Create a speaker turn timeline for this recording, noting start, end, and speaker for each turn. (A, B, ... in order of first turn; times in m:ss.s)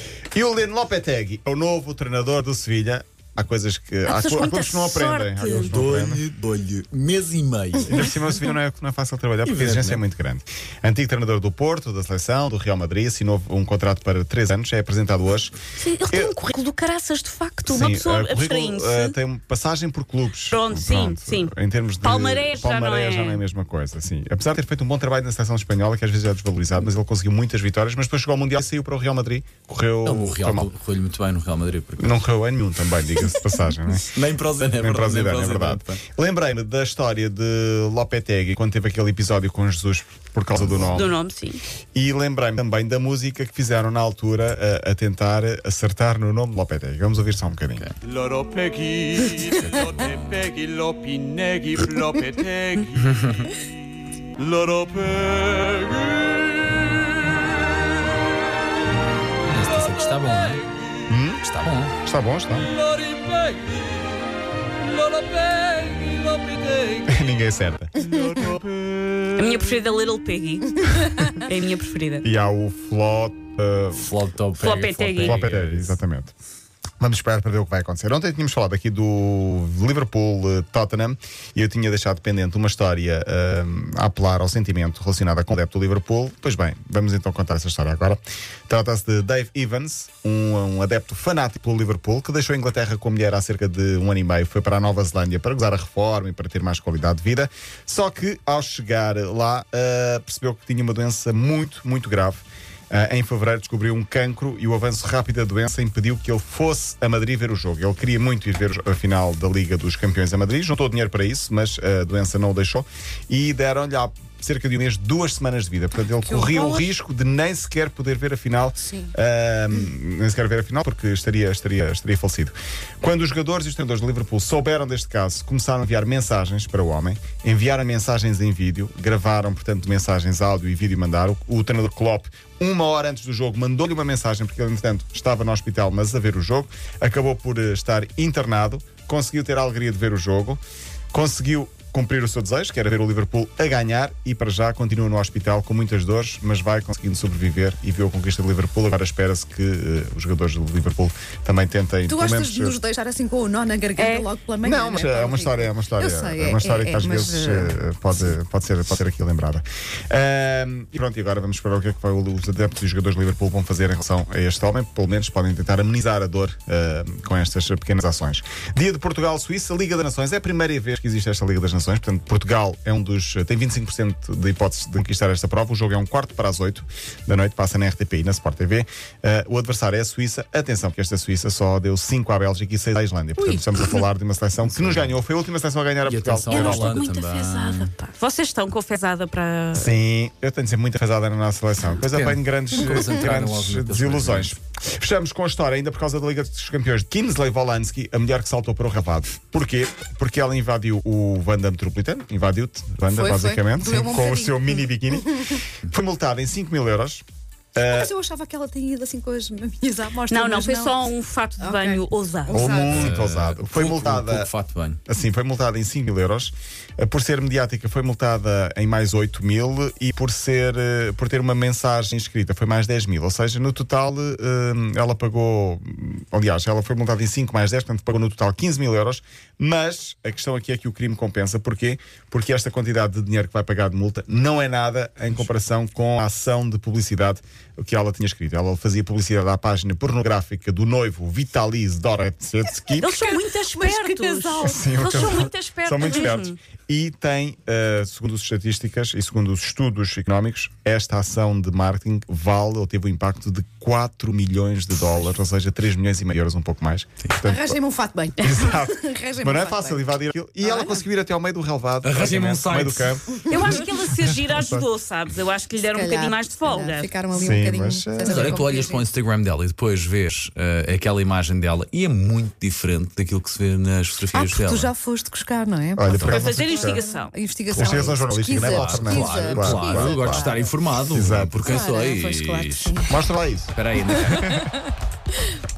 0:00.3-0:06.2 A
0:04.1-0:05.7 B
0:05.5-0:08.2 C
0:07.9-0:15.6 A
0:09.4-0:10.0 C
0:15.8-0:19.2 B
0:16.1-0:16.4 A
0:17.7-0:30.7 A
0:20.5-0:23.4 B
0:30.0-0:32.2 C
0:32.0-0:41.2 A
0:34.1-0:36.0 C
0:40.6-0:41.0 C
0:40.9-0:41.6 B
0:42.0-0:47.8 A
0:48.1-0:49.3 D
0:49.4-0:50.1 C
0:50.4-0:52.8 D
0:53.2-0:53.4 C
0:54.8-0:55.3 D
0:59.5-1:00.7 C
1:01.1-1:02.7 A
1:01.4-1:01.9 C
1:07.0-1:08.2 A
1:09.3-1:12.3 B
1:12.2-1:14.2 A
1:14.0-1:16.0 C
1:14.6-1:15.4 B
1:15.2-1:16.3 A
1:17.0-2:20.6 A
1:56.2-1:56.9 E
1:58.8-1:59.1 E
2:21.1-2:32.8 A
2:32.1-2:37.8 E
2:34.0-2:34.3 B
2:34.6-3:07.0 A
3:04.6-3:05.2 C
3:06.0-3:07.9 C
3:06.5-3:09.9 B
3:09.7-3:27.2 A
3:12.0-3:14.5 C
3:23.1-3:24.9 E
3:27.8-3:28.1 A
3:27.9-3:33.0 E
3:30.3-3:32.7 B
3:32.5-3:34.5 A
3:32.8-3:35.0 C
3:35.1-4:03.1 A
4:03.0-4:06.6 B
4:03.0-4:05.2 E
4:04.6-4:17.8 A
4:17.4-4:21.0 E
4:18.4-4:24.9 A
4:22.0-4:23.2 C
4:23.5-4:27.1 B
4:25.9-4:29.1 E
4:27.3-4:28.6 A
4:28.2-4:34.9 C
4:34.3-4:40.7 E
4:36.0-4:37.0 A
4:36.2-4:37.3 B
4:37.7-4:40.6 A
4:37.8-4:43.0 C
4:41.1-4:41.7 A
4:41.6-4:43.2 E
4:43.1-4:43.7 A
4:43.7-4:44.7 C
4:44.1-4:44.7 E